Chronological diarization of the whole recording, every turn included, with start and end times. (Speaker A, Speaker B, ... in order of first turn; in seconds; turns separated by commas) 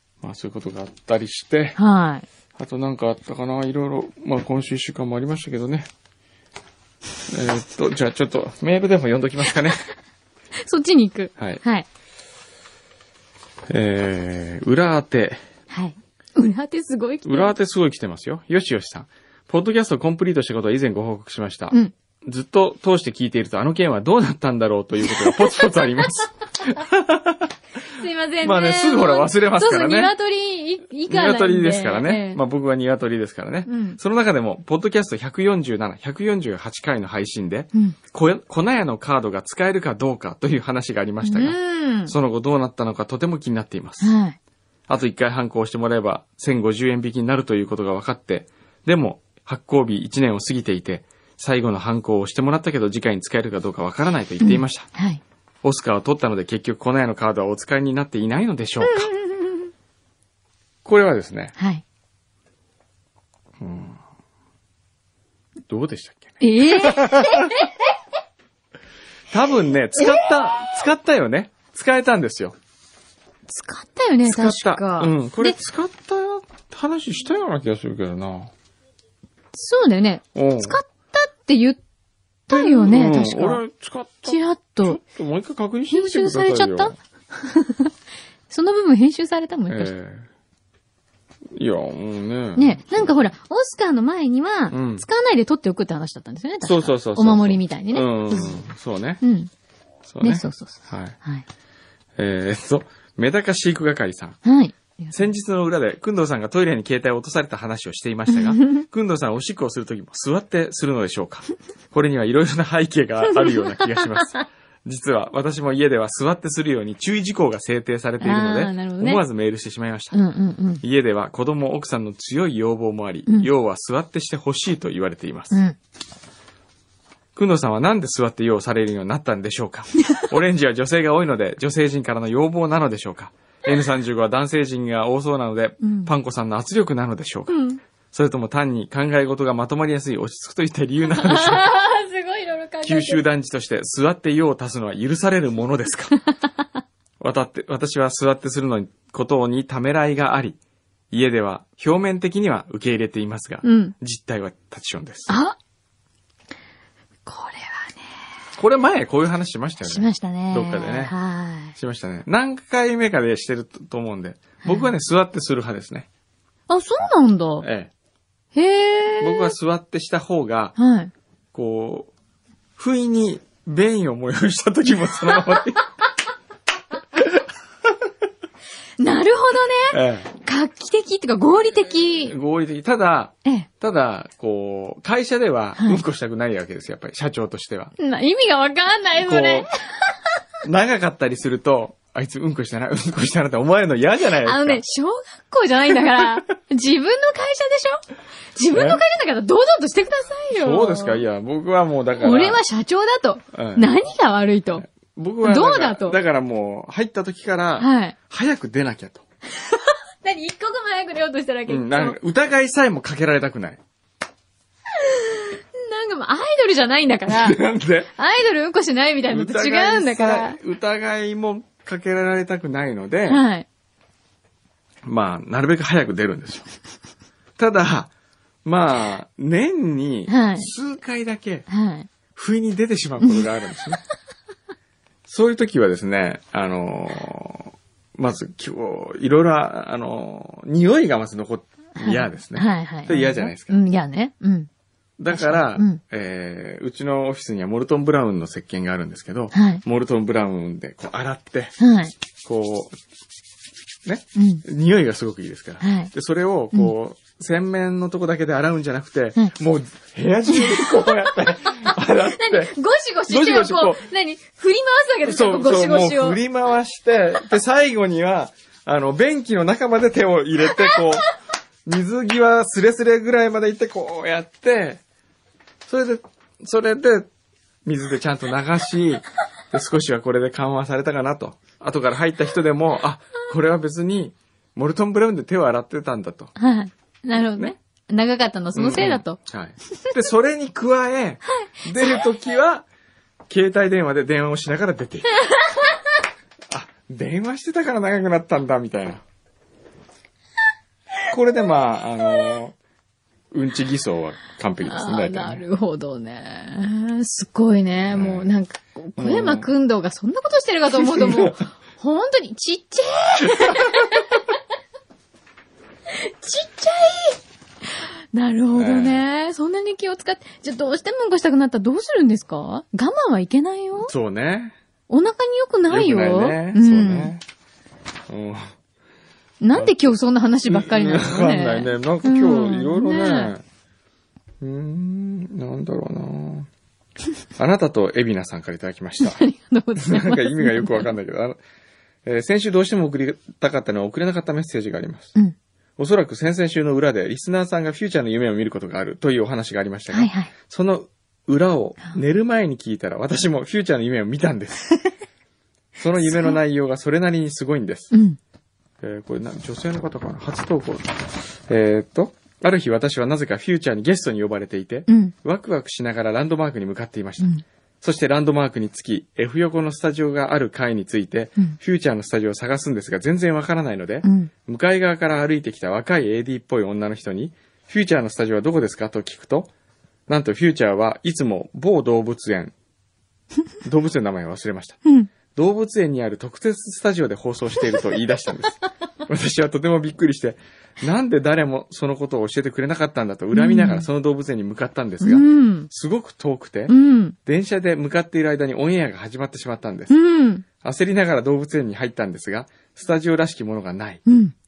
Speaker A: 0.2-1.8, Speaker B: 1.8-2.2, Speaker A: 2.6-5.9, Speaker A: 7.3-9.8, Speaker B: 10.7-11.8, Speaker A: 11.4-11.6, Speaker A: 13.7-15.4, Speaker B: 15.7-17.5, Speaker A: 17.2-27.5, Speaker B: 25.0-26.0, Speaker B: 27.9-32.4, Speaker A: 28.4-30.1, Speaker A: 31.1-44.1, Speaker B: 33.6-34.0, Speaker B: 41.2-42.1, Speaker B: 44.0-44.4, Speaker A: 44.9-54.9, Speaker B: 54.4-55.2, Speaker A: 55.6-59.1, Speaker B: 58.8-59.7, Speaker A: 60.8-61.5, Speaker B: 61.6-61.8, Speaker A: 63.6-64.0, Speaker A: 65.7-67.5, Speaker B: 66.4-67.7, Speaker A: 69.3-72.5, Speaker B: 73.5-75.6, Speaker A: 74.2-78.5, Speaker B: 79.5-81.8, Speaker A: 80.3-80.8, Speaker B: 82.5-83.6, Speaker A: 82.5-87.0, Speaker B: 84.2-85.0, Speaker B: 85.9-87.9, Speaker B: 88.5-89.9, Speaker A: 89.7-90.3, Speaker A: 91.5-93.1, Speaker B: 92.5-98.6, Speaker A: 94.7-95.0, Speaker A: 96.6-99.2, Speaker B: 99.2-99.5, Speaker A: 100.1-101.2, Speaker B: 100.2-101.4, Speaker A: 102.2-104.4, Speaker B: 104.4-105.2, Speaker A: 105.1-120.2, Speaker B: 108.3-108.8, Speaker B: 113.3-114.4, Speaker B: 118.2-119.2, Speaker B: 120.1-120.8, Speaker A: 120.8-125.6, Speaker B: 125.5-125.8, Speaker A: 127.3-137.6, Speaker B: 135.8-136.1, Speaker B: 137.5-137.8, Speaker A: 138.1-141.7, Speaker B: 141.1-143.2, Speaker A: 142.8-146.2, Speaker A: 147.2-150.6, Speaker A: 151.1-155.4, Speaker B: 153.6-153.9, Speaker B: 155.3-155.6, Speaker B: 157.2-158.0, Speaker A: 158.6-161.1, Speaker B: 159.8-161.8, Speaker A: 161.8-166.1, Speaker B: 164.6-164.9, Speaker B: 166.7-167.7, Speaker A: 167.6-167.9, Speaker B: 168.5-169.5, Speaker A: 169.2-170.7, Speaker B: 170.8-171.1, Speaker A: 171.5-172.1, Speaker A: 172.8-175.8, Speaker B: 179.0-182.3, Speaker A: 179.9-180.3, Speaker A: 182.2-187.9, Speaker B: 185.8-186.0, Speaker B: 188.0-189.7, Speaker A: 189.2-189.7, Speaker A: 190.6-194.8, Speaker B: 194.4-198.0, Speaker B: 198.5-201.2, Speaker A: 198.7-199.0, Speaker A: 200.5-202.6, Speaker B: 202.2-204.8, Speaker A: 203.5-204.0, Speaker A: 204.8-209.2, Speaker B: 205.4-206.2, Speaker B: 207.8-208.1, Speaker B: 209.6-212.2, Speaker A: 211.7-213.8, Speaker B: 215.0-217.6, Speaker A: 217.2-218.1, Speaker B: 218.2-220.6, Speaker A: 219.3-223.4, Speaker B: 223.3-223.7, Speaker A: 225.0-226.7, Speaker A: 227.6-228.1, Speaker A: 228.6-231.7, Speaker B: 230.3-230.7, Speaker B: 231.7-232.1, Speaker A: 232.3-234.0, Speaker A: 235.3-243.8, Speaker B: 241.9-244.7, Speaker A: 245.2-251.8, Speaker B: 245.3-246.0, Speaker B: 249.5-249.8, Speaker B: 251.8-252.1, Speaker A: 252.4-253.0, Speaker A: 254.0-262.7, Speaker B: 254.3-254.6, Speaker B: 255.8-256.1, Speaker B: 260.5-261.3, Speaker B: 261.8-266.4, Speaker A: 263.3-264.0, Speaker A: 265.2-271.3, Speaker A: 271.9-275.0, Speaker A: 275.9-277.3, Speaker A: 277.8-286.5, Speaker B: 286.6-289.4, Speaker A: 288.7-292.9, Speaker B: 291.5-292.0, Speaker A: 293.5-295.4, Speaker A: 296.7-299.2, Speaker A: 301.3-302.7, Speaker A: 303.5-305.6, Speaker B: 304.8-314.3, Speaker A: 308.1-308.5, Speaker A: 309.2-309.7, Speaker A: 310.9-311.6, Speaker B: 316.1-317.4, Speaker B: 318.3-324.1, Speaker A: 318.7-319.2, Speaker A: 324.0-324.8, Speaker B: 325.1-327.3, Speaker A: 325.9-327.4, Speaker A: 328.3-328.7, Speaker B: 329.6-333.5, Speaker A: 330.7-333.6, Speaker A: 334.6-336.7, Speaker A: 337.6-339.4, Speaker B: 339.2-341.1, Speaker A: 340.0-341.6, Speaker A: 342.2-345.3, Speaker A: 346.0-355.0, Speaker B: 350.1-350.5, Speaker A: 356.0-358.1, Speaker B: 356.2-356.6, Speaker B: 358.1-358.4, Speaker A: 359.0-379.7, Speaker B: 365.1-365.3, Speaker B: 374.2-374.5, Speaker A: 380.3-382.7, Speaker A: 383.8-385.0, Speaker A: 385.5-396.9, Speaker B: 393.5-394.1, Speaker B: 395.2-395.9, Speaker B: 396.9-397.3, Speaker A: 397.4-400.2, Speaker B: 400.1-400.6, Speaker A: 400.8-404.2, Speaker B: 404.3-404.5